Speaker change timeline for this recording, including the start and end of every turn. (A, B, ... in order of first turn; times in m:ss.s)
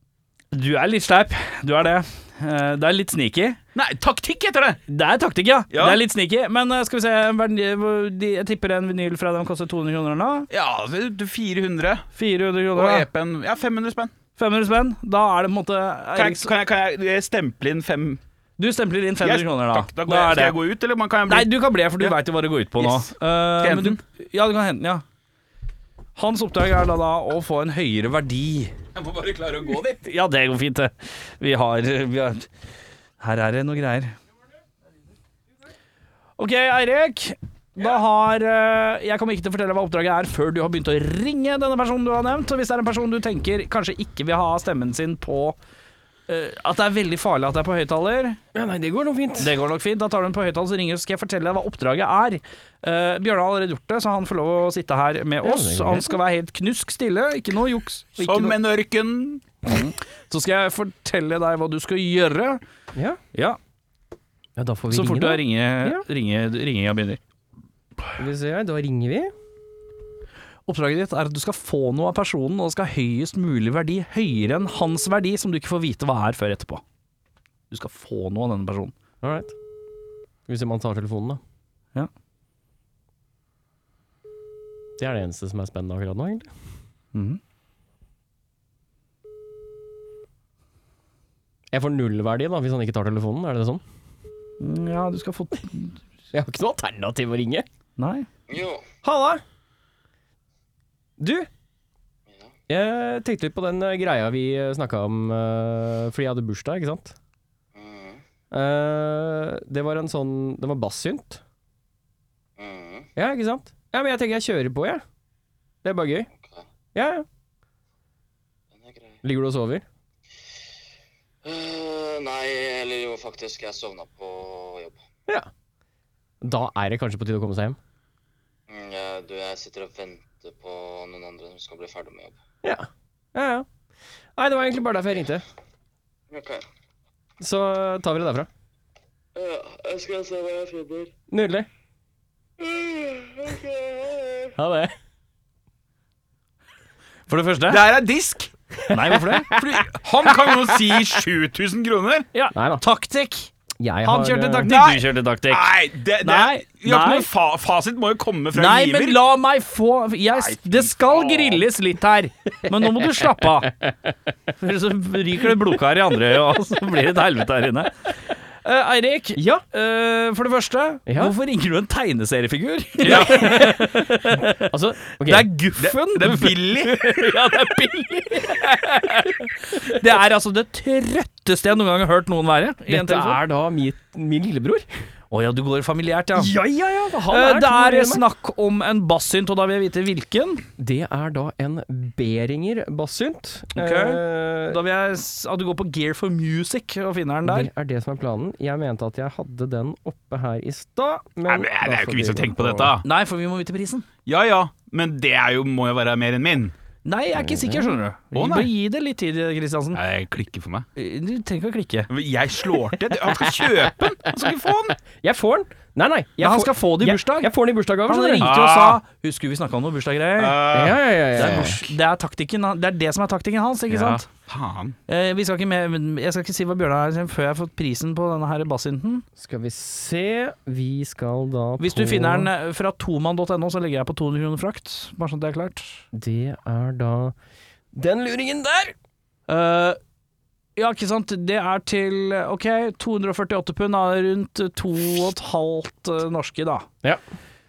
0:00.5-0:03.6 A
0:03.7-0:04.8 B
0:04.9-0:10.5 A
0:05.7-0:06.0 B
0:10.5-0:12.1 B
0:12.2-0:13.0 A
0:12.7-0:14.1 B
0:14.4-0:16.5 A
0:16.1-0:18.2 B
0:18.6-0:20.6 A
0:19.2-0:22.2 B
0:21.3-0:25.0 A
0:22.7-0:24.0 B
0:26.2-0:28.7 A
0:28.9-0:30.0 B
0:30.0-0:32.5 A
0:33.2-0:34.1 A
0:36.4-0:45.6 A
0:46.3-0:48.4 A
0:48.5-0:49.6 C
0:49.4-0:58.6 A
0:55.4-0:56.2 C
0:58.2-0:59.4 B
0:59.6-1:02.6 A
1:02.9-1:03.2 C
1:03.3-1:03.6 A
1:04.6-1:06.0 C
1:04.9-1:07.2 A
1:08.2-1:09.3 C
1:10.7-1:16.8 A
1:17.7-1:18.9 A
1:19.2-1:19.5 C
1:20.5-1:21.4 C
1:25.0-1:26.5 C
1:27.1-1:27.4 A
1:31.7-1:33.8 C
1:34.6-1:36.0 A
1:36.3-1:37.6 C
1:38.0-1:38.3 A
1:38.5-1:38.8 D
1:39.0-1:39.4 C
1:41.2-1:41.5 C
1:42.7-1:47.1 C
1:47.7-1:48.2 D
1:48.5-1:51.4 C
1:52.6-1:53.1 D
1:53.2-1:55.0 C
1:55.8-1:56.3 C
1:56.9-1:57.2 C
1:58.7-1:59.2 D
1:59.2-1:59.8 C
2:01.4-2:05.0 D
2:06.4-2:07.8 C
2:08.7-2:12.4 D
2:12.6-2:13.6 C
2:14.4-2:15.4 C
2:16.3-2:16.6 D
2:17.4-2:18.5 C
2:19.3-2:21.1 D
2:21.3-2:21.7 C
2:22.6-2:24.5 D
2:24.6-2:24.9 C
2:27.3-2:27.8 A
2:27.7-2:28.5 B
2:28.8-2:29.8 C
2:28.9-2:29.5 A
2:29.5-2:32.3 B
2:30.4-2:31.0 C
2:32.3-2:33.5 A
2:32.5-2:32.8 C
2:33.8-2:34.7 C
2:34.0-2:37.3 A
2:34.6-2:39.2 B
2:38.5-2:43.7 A
2:41.0-2:41.4 D
2:44.6-3:03.4 A
2:49.4-2:49.6 C
2:51.1-2:51.3 C
2:53.0-2:53.6 B
2:53.0-2:55.5 C
2:55.8-2:57.1 B
3:02.9-3:04.9 C
3:05.3-3:06.5 A
3:06.4-3:08.2 C
3:07.3-3:10.6 A
3:10.8-3:14.8 C
3:13.7-3:17.7 A
3:17.4-3:22.9 C
3:21.4-3:23.0 B
3:23.0-3:24.1 A
3:24.2-3:26.7 B
3:27.0-3:30.0 A
3:27.4-3:27.9 C
3:28.3-3:28.7 B
3:29.9-3:30.9 B
3:31.0-3:32.1 A
3:32.1-3:35.0 B
3:35.2-3:38.5 C
3:36.4-3:37.5 A
3:38.0-3:40.7 A
3:38.4-3:39.0 B
3:40.4-3:41.1 B
3:40.7-3:41.8 C
3:41.3-3:44.3 A
3:43.9-3:45.0 B
3:45.1-3:49.2 A
3:49.4-3:52.5 C
3:51.8-3:56.0 A
3:56.1-3:57.3 C
3:57.9-3:58.9 C
3:59.5-4:00.0 A
4:00.8-4:06.9 A